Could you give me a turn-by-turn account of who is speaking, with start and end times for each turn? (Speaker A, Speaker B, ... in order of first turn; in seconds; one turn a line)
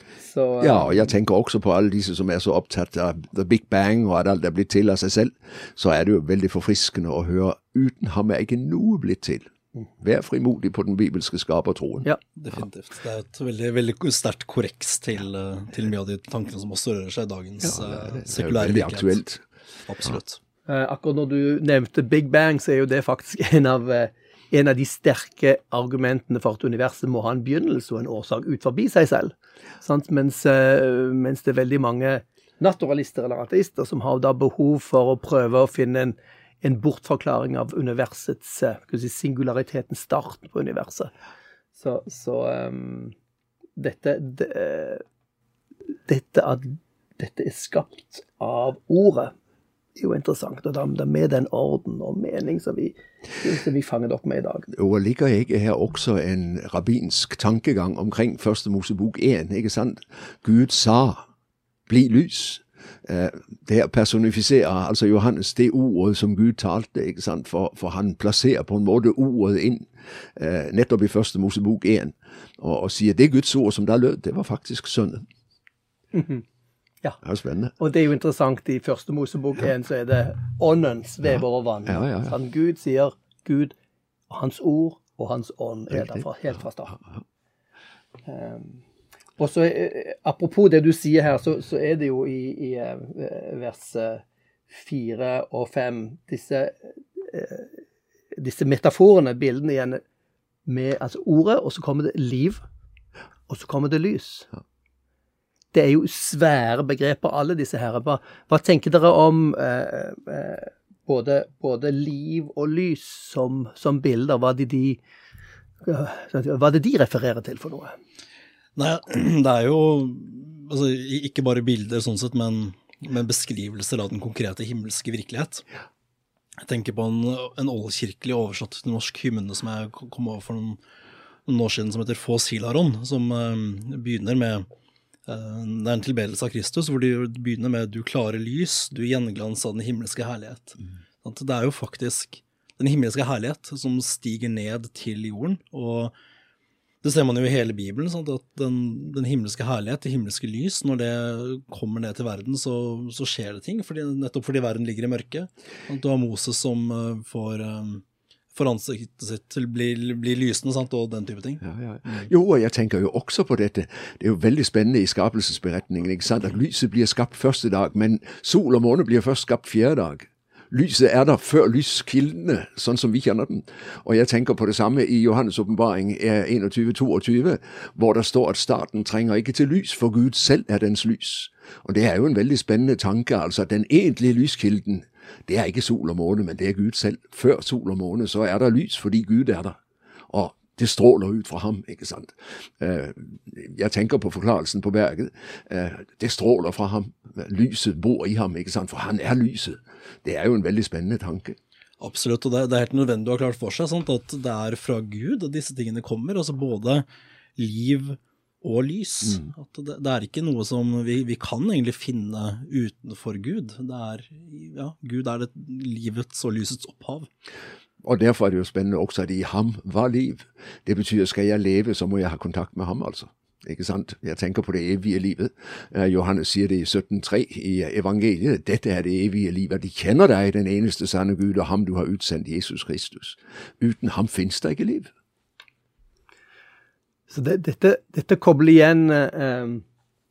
Speaker A: 0.2-1.1
Speaker B: 0.6-12.1
Speaker C: 12.4-19.2
Speaker B: 17.6-19.4
Speaker C: 19.9-20.4
Speaker A: 20.7-41.1
Speaker A: 41.8-43.1
Speaker A: 43.8-45.0
Speaker A: 46.1-49.3
Speaker A: 50.0-54.7
Speaker B: 54.7-61.3
Speaker B: 61.9-75.3
Speaker A: 76.1-76.5
Speaker B: 77.2-77.7
Speaker A: 77.8-83.7
Speaker B: 81.9-82.3
Speaker A: 84.3-87.0
Speaker B: 85.9-86.2
Speaker B: 86.9-87.2
Speaker A: 88.3-88.8
Speaker A: 89.4-97.8
Speaker A: 98.4-100.0
Speaker A: 100.7-102.6
Speaker A: 103.5-104.5
Speaker A: 105.7-115.0
Speaker A: 115.8-117.9
Speaker C: 118.8-125.7
Speaker C: 126.6-130.8
Speaker C: 131.5-134.7
Speaker C: 135.3-146.1
Speaker C: 147.0-162.3
Speaker B: 161.6-189.8
Speaker B: 190.3-201.6
Speaker C: 202.0-207.1
Speaker C: 207.6-217.3
Speaker B: 218.0-235.1
Speaker A: 237.3-239.8